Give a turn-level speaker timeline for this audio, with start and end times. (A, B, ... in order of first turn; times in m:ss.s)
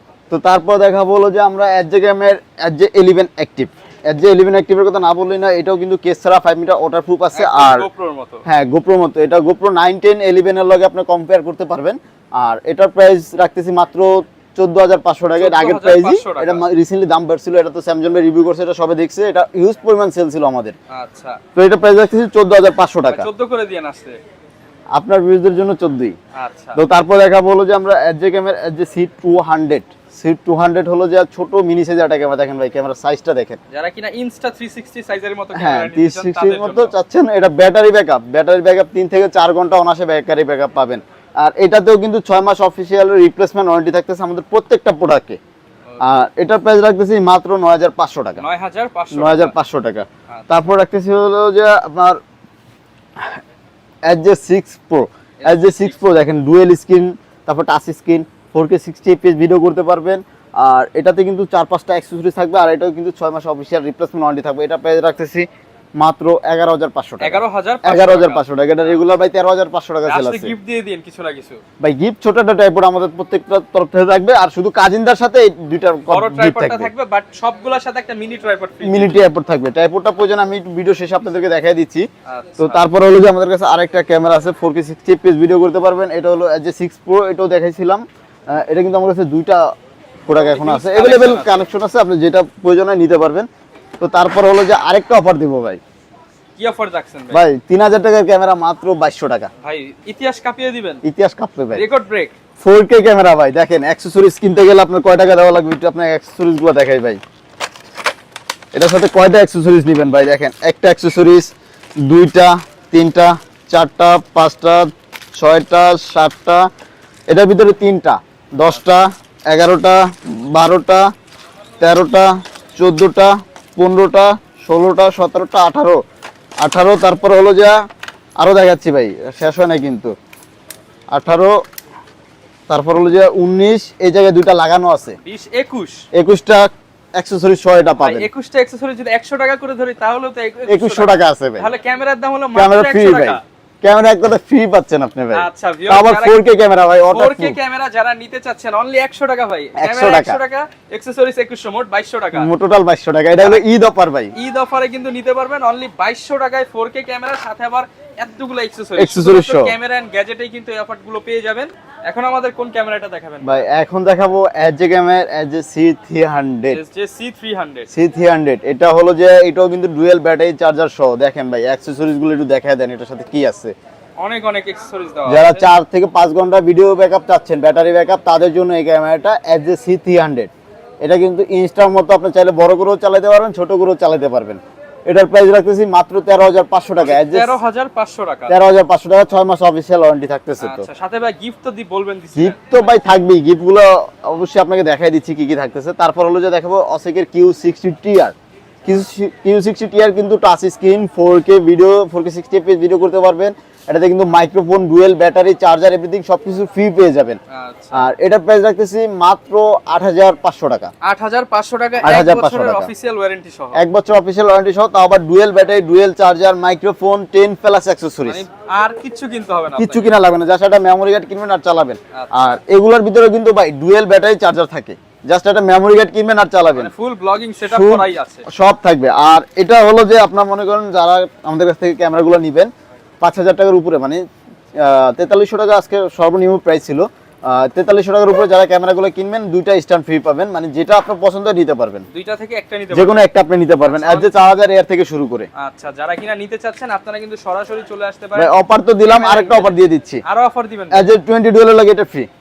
0:00.3-0:07.9 A
0:07.3-0:08.4 B
0:08.4-0:20.8 A
0:15.4-0:16.6 B
0:20.9-0:21.4 B
0:21.5-0:23.3 A
0:23.1-0:24.2 B
0:24.9-0:26.2 A
0:26.4-0:26.8 B
0:26.8-0:33.6 A
0:33.7-0:36.9 B
0:35.5-0:45.4 A
0:46.0-0:48.4 A
0:48.4-0:49.5 B
0:49.1-0:52.2 A
0:54.0-1:05.5 A
0:55.4-0:56.0 B
1:06.0-1:10.5 A
1:07.2-1:09.0 B
1:10.0-1:11.6 B
1:11.8-1:16.9 A
1:16.1-1:19.2 B
1:18.8-1:22.0 A
1:22.2-1:22.9 B
1:22.6-1:29.6 A
1:30.2-1:33.5 A
1:30.3-1:31.6 B
1:34.0-1:35.8 A
1:36.6-1:37.4 B
1:37.3-1:39.5 A
1:39.6-1:41.0 B
1:41.0-1:41.8 A
1:41.7-1:42.3 B
1:42.6-1:47.2 A
1:48.7-1:56.7 A
1:57.3-2:01.1 A
2:01.8-2:06.0 A
2:06.6-2:07.8 A
2:08.4-2:10.1 A
2:11.1-2:11.5 A
2:12.7-2:15.2 A
2:15.2-2:16.0 B
2:16.1-2:18.3 A
2:18.0-2:23.4 B
2:20.7-2:21.7 A
2:22.5-2:27.6 A
2:25.3-2:26.4 B
2:27.1-2:32.5 B
2:29.8-2:30.4 A
2:32.4-2:34.3 A
2:33.4-2:33.6 B
2:34.4-2:43.7 B
2:39.0-2:39.8 A
2:43.4-2:46.8 A
2:46.7-2:47.9 B
2:47.9-2:53.7 A
2:54.2-2:55.7 B
2:55.3-3:00.5 A
3:01.0-3:07.5 A
3:07.0-3:08.6 B
3:08.5-3:10.9 A
3:10.6-3:12.9 B
3:12.4-3:18.4 A
3:18.9-3:27.4 A
3:27.5-3:28.0 B
3:27.9-3:30.9 A
3:31.0-3:33.8 B
3:32.0-3:32.9 A
3:33.8-3:38.4 A
3:38.2-3:40.1 B
3:39.8-3:46.9 A
3:42.1-3:42.6 B
3:46.7-3:48.5 B
3:47.6-3:52.7 A
3:53.2-3:54.2 A
3:54.8-4:02.1 A
4:02.1-4:03.3 B
4:02.9-4:05.5 A
4:03.8-4:04.3 B
4:05.6-4:08.5 B
4:08.4-4:10.2 A
4:09.0-4:11.1 B
4:10.9-4:12.3 A